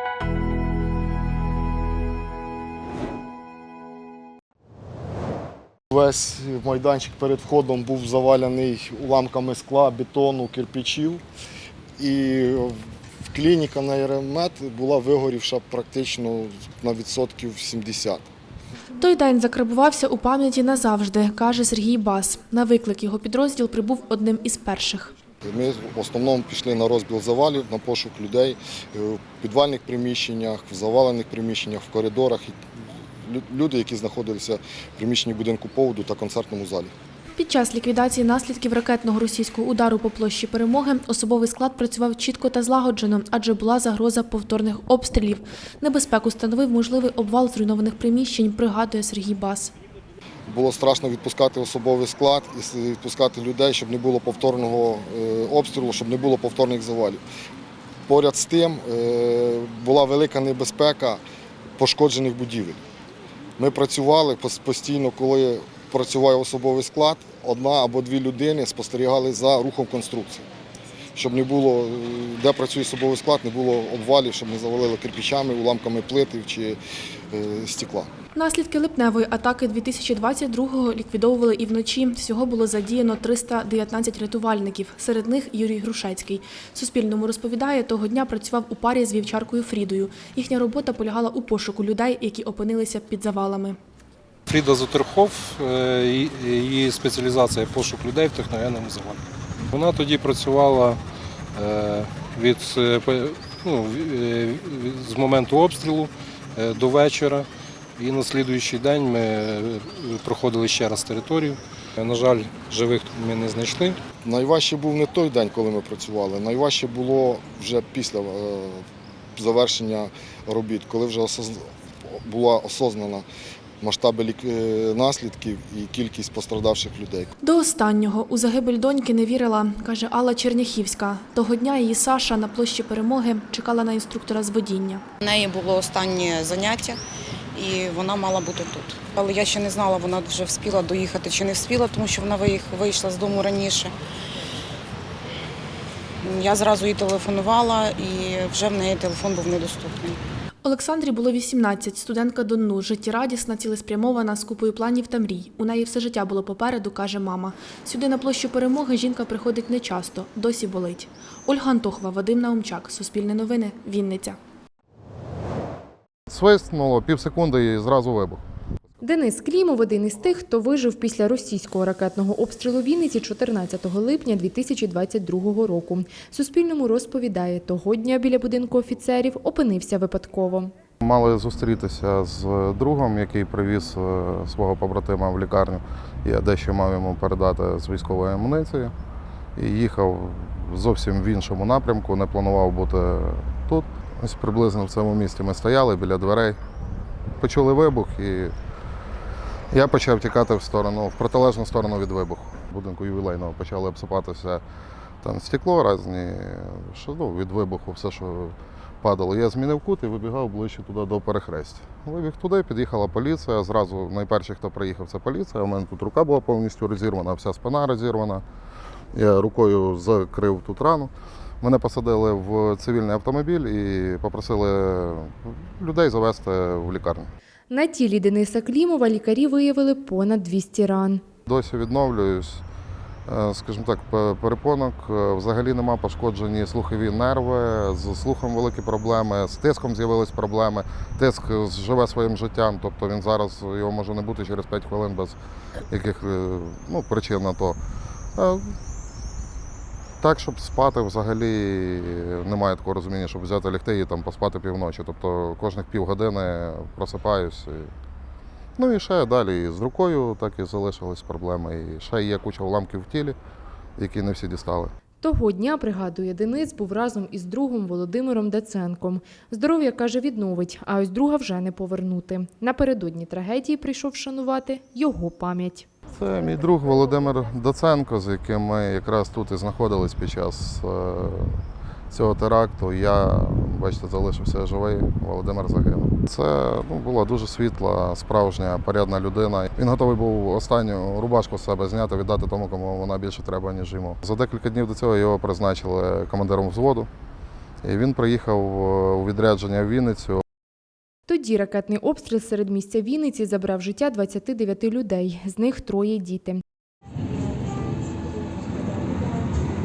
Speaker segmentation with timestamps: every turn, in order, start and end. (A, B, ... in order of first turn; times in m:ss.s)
0:05.9-0:11.2 A
0:12.0-0:18.3 A
0:19.0-0:25.1 B
0:25.4-0:32.6 A
0:33.2-0:36.9 A
0:37.4-0:49.7 B
0:50.5-0:57.2 A
0:58.1-1:01.2 A
1:01.8-1:02.8 A
1:03.6-1:10.4 A
1:11.1-1:16.8 A
1:17.3-1:18.1 A
1:18.3-1:33.8 B
1:34.5-1:41.0 C
1:41.6-1:47.5 C
1:48.0-1:54.0 C
1:54.2-1:58.8 A
1:59.4-2:03.3 A
2:03.8-2:07.3 A
2:07.4-2:15.0 B
2:15.2-2:17.0 D
2:17.6-2:23.9 D
2:26.2-2:30.2 D
2:30.6-2:44.4 B
2:46.3-2:48.4 E
2:49.0-3:00.7 F
3:01.0-3:08.9 E
3:09.6-3:16.6 E
3:17.4-3:18.5 E
3:19.7-3:24.6 E
3:25.2-3:38.4 E
3:39.1-3:47.3 E
3:47.7-3:51.2 F
3:51.5-3:52.6 E
3:53.3-4:05.4 E
4:05.9-4:07.8 E
4:08.4-4:08.8 E
4:10.2-4:17.9 E
4:18.8-4:23.4 E
4:24.0-4:24.9 E
4:25.2-4:35.9 F
4:36.1-4:41.6 E
4:42.1-4:57.1 E
4:57.8-5:00.4 E
5:01.3-5:06.6 F